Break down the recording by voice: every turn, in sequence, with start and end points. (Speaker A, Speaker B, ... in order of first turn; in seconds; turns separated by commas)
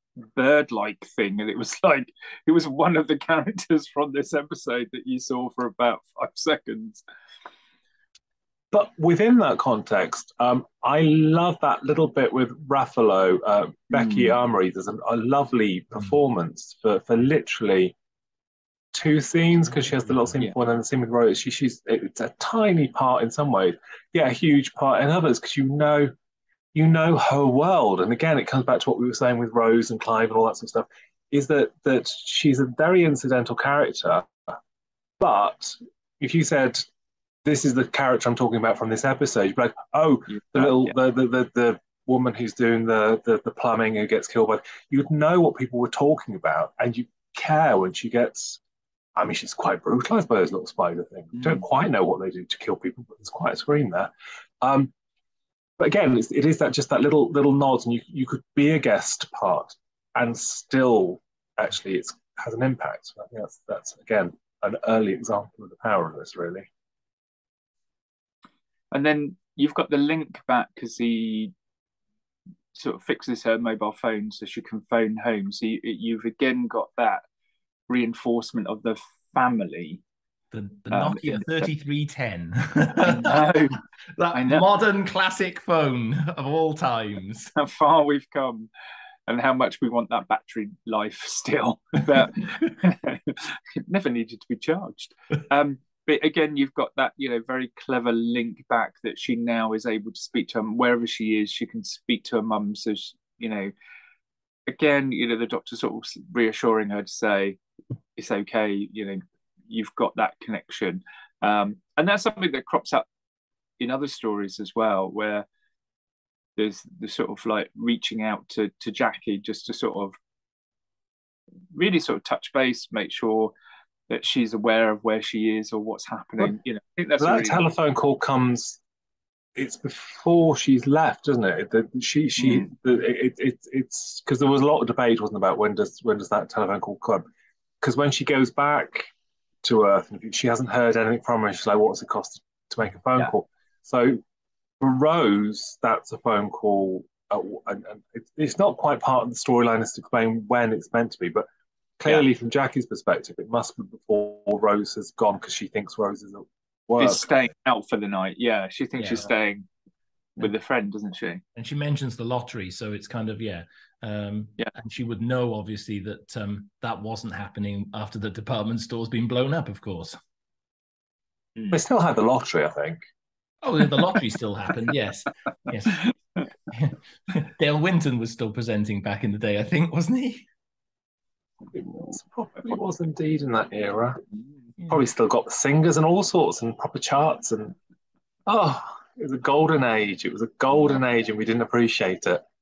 Speaker A: 0.2-7.0, Speaker B: 8.7-17.9, Speaker A: 14.0-14.3, Speaker B: 18.9-26.1, Speaker B: 26.7-34.3, Speaker B: 35.2-36.9, Speaker B: 37.4-48.6, Speaker B: 49.1-54.9, Speaker A: 51.3-51.6, Speaker B: 55.8-66.7, Speaker A: 68.9-71.5, Speaker A: 72.7-77.2, Speaker A: 77.9-80.0, Speaker C: 80.5-83.5, Speaker A: 80.9-81.7, Speaker A: 83.0-83.8, Speaker C: 84.2-87.5, Speaker A: 84.3-84.6, Speaker A: 87.5-88.7, Speaker A: 89.3-103.7, Speaker A: 104.7-107.6, Speaker A: 108.2-113.0, Speaker A: 113.8-115.5, Speaker A: 116.6-120.2, Speaker A: 121.7-123.5, Speaker A: 124.1-127.6, Speaker B: 127.2-128.8, Speaker B: 129.6-137.2, Speaker A: 132.4-132.7, Speaker B: 137.8-139.1, Speaker B: 139.6-144.2, Speaker B: 144.8-151.4, Speaker B: 152.0-157.3, Speaker A: 157.0-159.7, Speaker C: 159.0-159.3, Speaker A: 160.4-161.4, Speaker C: 161.6-170.2, Speaker B: 171.7-173.0, Speaker C: 173.6-176.0, Speaker C: 176.7-180.4, Speaker B: 181.7-184.2, Speaker B: 184.9-187.8, Speaker B: 188.4-192.4